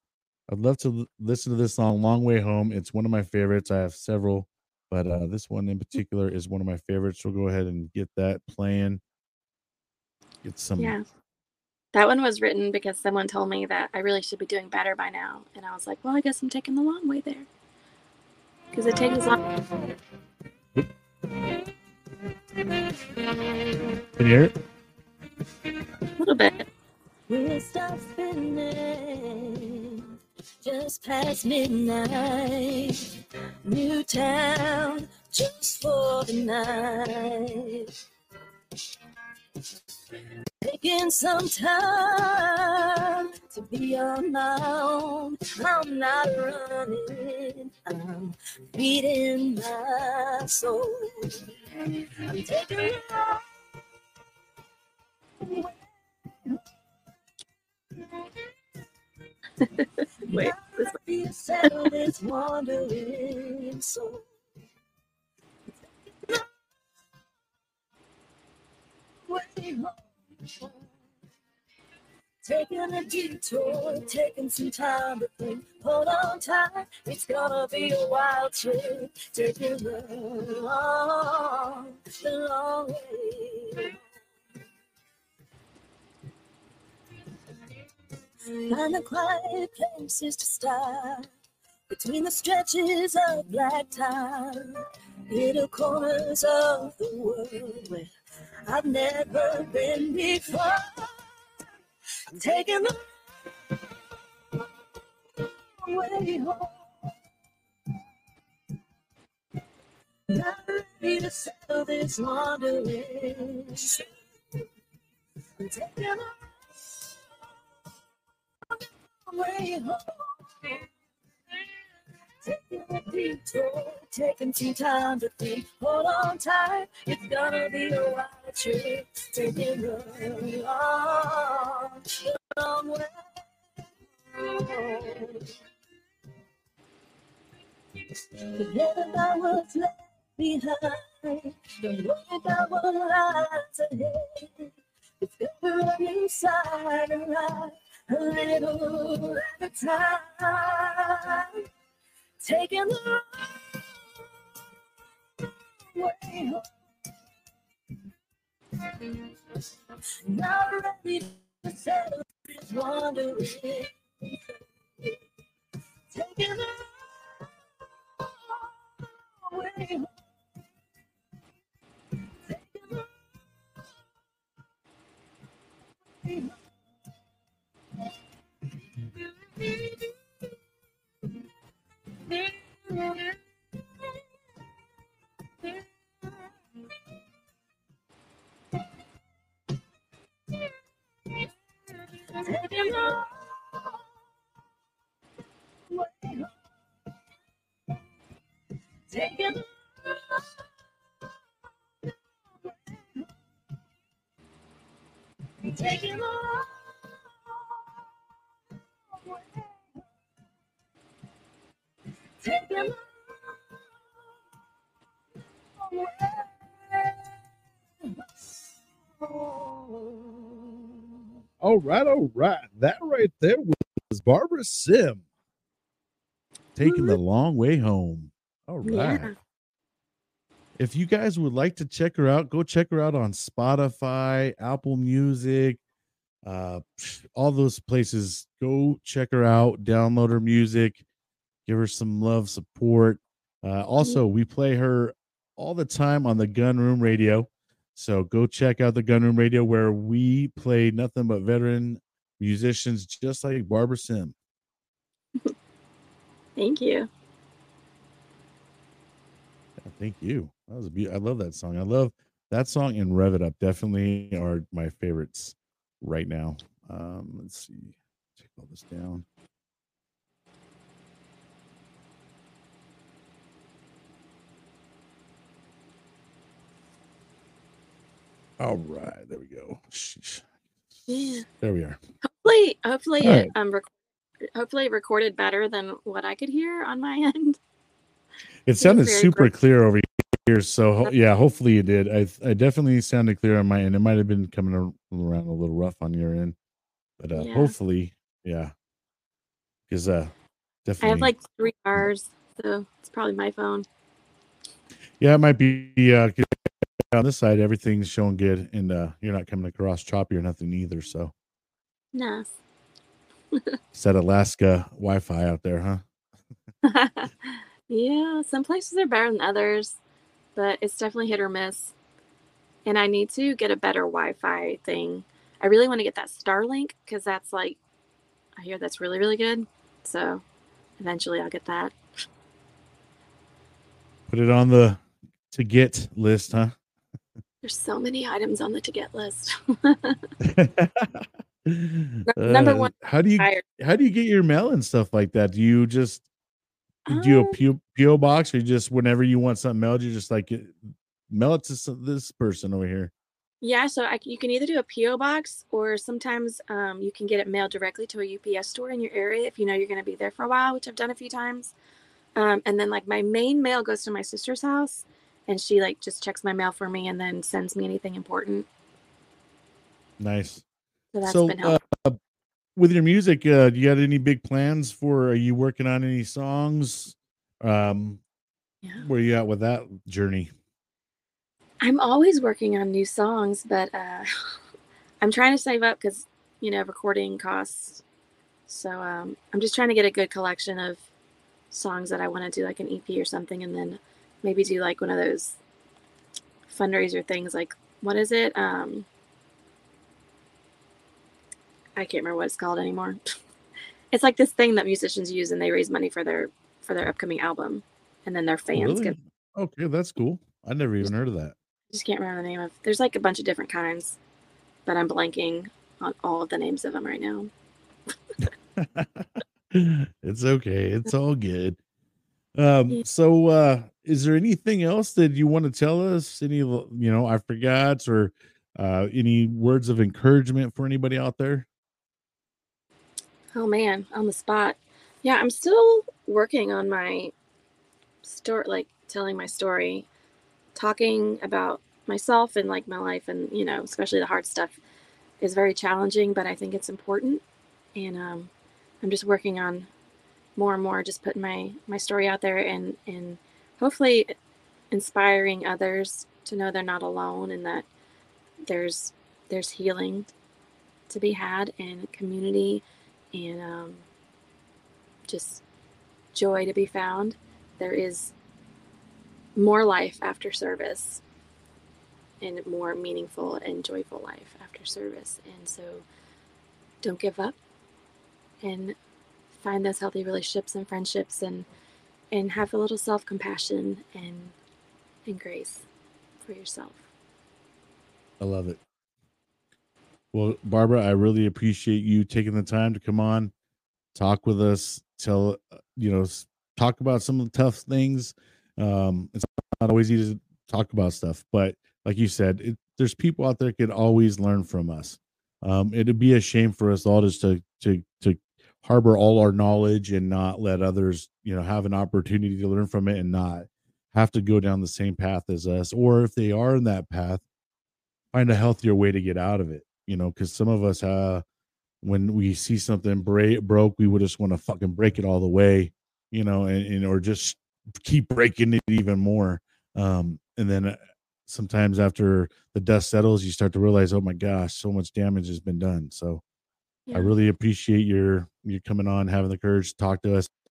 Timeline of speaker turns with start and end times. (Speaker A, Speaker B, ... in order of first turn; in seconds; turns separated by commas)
Speaker A: 0.5-9.0, Speaker A: 10.4-11.0, Speaker B: 10.8-11.0, Speaker B: 11.9-17.5, Speaker B: 18.7-19.4, Speaker C: 21.3-21.6, Speaker C: 22.3-23.5, Speaker A: 24.2-24.5, Speaker B: 26.2-26.7, Speaker C: 27.3-30.1, Speaker C: 30.6-33.1, Speaker C: 33.6-37.9, Speaker C: 40.6-53.4, Speaker C: 55.4-56.6, Speaker C: 58.0-58.4, Speaker B: 59.6-60.9, Speaker C: 60.3-64.3, Speaker C: 65.8-66.5, Speaker C: 69.3-70.8, Speaker C: 72.4-83.9, Speaker C: 88.7-91.3, Speaker C: 91.9-94.7, Speaker C: 95.3-98.1, Speaker C: 98.7-101.2, Speaker C: 102.3-103.0, Speaker C: 105.4-107.1, Speaker C: 110.3-114.0, Speaker C: 115.6-117.1, Speaker C: 119.3-120.8, Speaker C: 122.4-133.2, Speaker C: 134.3-135.5, Speaker C: 138.0-151.6, Speaker C: 152.4-153.8, Speaker C: 155.9-156.7, Speaker C: 158.8-159.3, Speaker C: 160.3-164.4, Speaker C: 166.1-167.0, Speaker C: 168.2-168.7, Speaker C: 169.5-170.2, Speaker C: 172.4-173.1, Speaker C: 176.2-176.6, Speaker C: 178.7-180.1, Speaker C: 182.2-183.4, Speaker C: 192.3-194.0, Speaker C: 195.9-196.5, Speaker C: 199.1-200.4, Speaker C: 202.7-203.3, Speaker C: 205.6-207.8, Speaker C: 209.1-209.6, Speaker C: 212.4-213.6, Speaker C: 215.8-217.1, Speaker C: 219.2-220.0, Speaker A: 221.6-225.2, Speaker A: 226.8-229.3, Speaker B: 226.8-227.2, Speaker B: 228.8-229.3, Speaker A: 230.8-235.8, Speaker A: 236.4-241.0, Speaker A: 241.7-254.3, Speaker B: 256.6-257.1, Speaker A: 259.8-269.2, Speaker A: 278.6-280.4, Speaker B: 281.1-281.4, Speaker A: 281.4-282.0, Speaker B: 282.2-283.9, Speaker A: 283.2-283.5, Speaker B: 284.6-287.6, Speaker A: 288.7-296.6, Speaker B: 288.8-289.5, Speaker A: 297.2-298.7, Speaker B: 297.4-297.7, Speaker A: 299.9-300.3, Speaker A: 300.9-301.3, Speaker B: 301.0-303.9, Speaker A: 305.2-311.3, Speaker B: 312.1-312.6, Speaker A: 313.9-316.0, Speaker B: 316.9-320.0, Speaker B: 320.6-321.9, Speaker B: 322.9-327.8, Speaker B: 328.6-330.4, Speaker B: 331.0-331.9, Speaker A: 334.3-336.8, Speaker B: 337.6-340.2, Speaker A: 340.4-346.2, Speaker B: 342.3-343.6, Speaker B: 347.1-347.6, Speaker A: 347.1-353.1, Speaker B: 353.6-361.8, Speaker B: 362.4-368.7, Speaker A: 370.2-370.6, Speaker B: 371.1-371.8, Speaker A: 371.2-372.2, Speaker A: 372.8-378.2, Speaker A: 379.0-380.5, Speaker B: 381.8-384.3, Speaker B: 385.2-388.0, Speaker B: 388.7-391.1, Speaker B: 391.7-395.6, Speaker B: 396.7-399.1, Speaker B: 402.0-403.2, Speaker B: 404.1-409.1, Speaker A: 408.8-411.6, Speaker B: 411.9-414.2, Speaker B: 414.9-417.5, Speaker A: 418.8-421.8, Speaker A: 422.6-431.7, Speaker B: 433.5-437.3, Speaker B: 438.2-440.1, Speaker B: 440.8-444.8, Speaker B: 445.4-447.4, Speaker B: 448.0-448.5, Speaker B: 449.0-449.9, Speaker B: 450.6-454.3, Speaker B: 454.9-457.9, Speaker B: 458.7-460.3, Speaker B: 461.1-464.1, Speaker B: 465.3-465.6, Speaker B: 466.3-468.3, Speaker B: 469.6-471.2, Speaker B: 472.4-476.1, Speaker B: 477.0-477.6, Speaker B: 478.6-479.0, Speaker B: 479.6-481.7, Speaker B: 482.3-484.6, Speaker B: 485.3-485.9, Speaker B: 486.4-487.0, Speaker A: 488.4-488.8, Speaker A: 490.3-493.5, Speaker A: 494.1-517.4, Speaker A: 518.3-521.4, Speaker A: 522.0-536.4, Speaker B: 537.1-537.3, Speaker A: 537.1-540.5